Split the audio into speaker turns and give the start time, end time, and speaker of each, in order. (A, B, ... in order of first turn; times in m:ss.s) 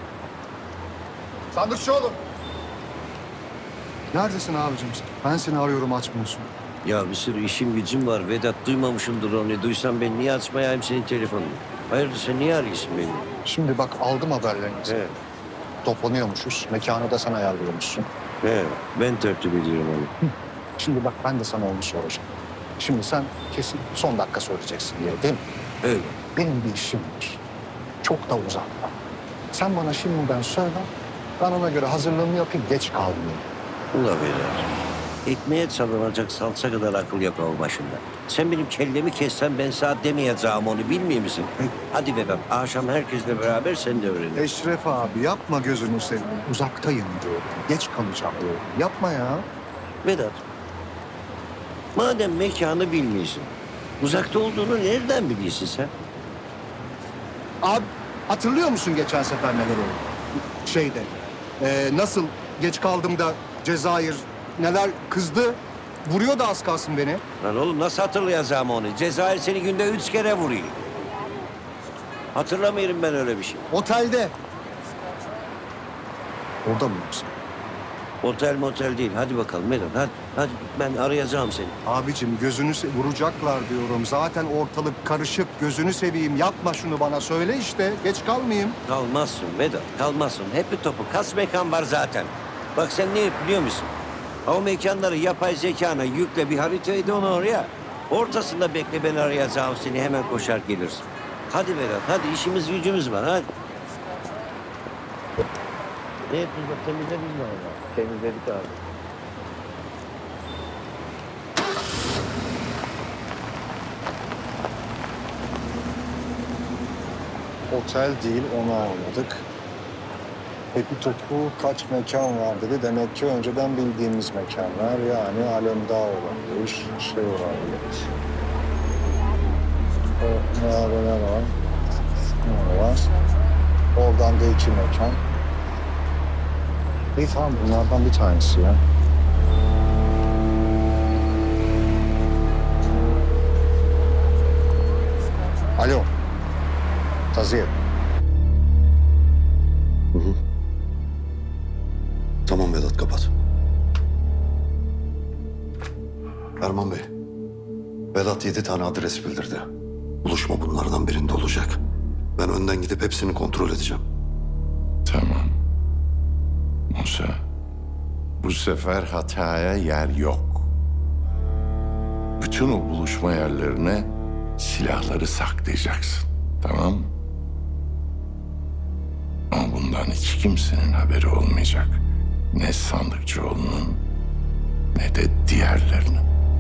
0:01.5-0:02.2 A
0:04.1-0:06.5 A
0:06.8-0:13.3 B
0:13.4-0:15.0 A
0:14.9-0:15.2 B
0:15.8-0:18.0 A
0:18.4-0:20.1 B
0:20.8-0:22.2 A
0:22.8-0:25.4 A
0:25.8-0:26.1 B
0:26.3-0:27.4 A
0:28.0-0:28.9 A
0:29.5-0:30.9 A
0:31.4-0:33.4 A
0:33.9-0:34.6 B
0:35.2-0:44.4 B
0:44.4-0:49.4 A
0:50.0-0:50.4 B
0:52.0-0:55.9 B
0:57.6-1:00.0 A
1:00.6-1:07.2 A
1:07.4-1:10.8 B
1:12.3-1:13.6 B
1:13.7-1:14.3 A
1:16.6-1:17.3 A
1:18.2-1:21.8 B
1:21.8-1:28.8 A
1:28.8-1:33.9 B
1:34.4-1:43.5 B
1:46.3-1:48.6 B
1:57.7-1:59.4 A
2:00.7-2:07.8 A
2:10.2-2:11.5 A
2:12.4-2:13.1 A
2:14.0-2:15.2 A
2:17.2-2:18.8 A
2:25.8-2:26.1 A
2:27.3-2:27.7 A
2:32.5-2:33.3 C
2:36.6-2:37.1 C
2:38.1-2:39.7 C
2:40.2-2:41.8 C
2:42.4-2:44.0 C
2:45.0-2:45.5 D
2:46.9-2:47.4 D
2:48.4-2:50.7 D
2:52.4-2:57.1 D
2:59.5-3:02.0 D
3:02.5-3:04.0 D
3:05.0-3:06.2 D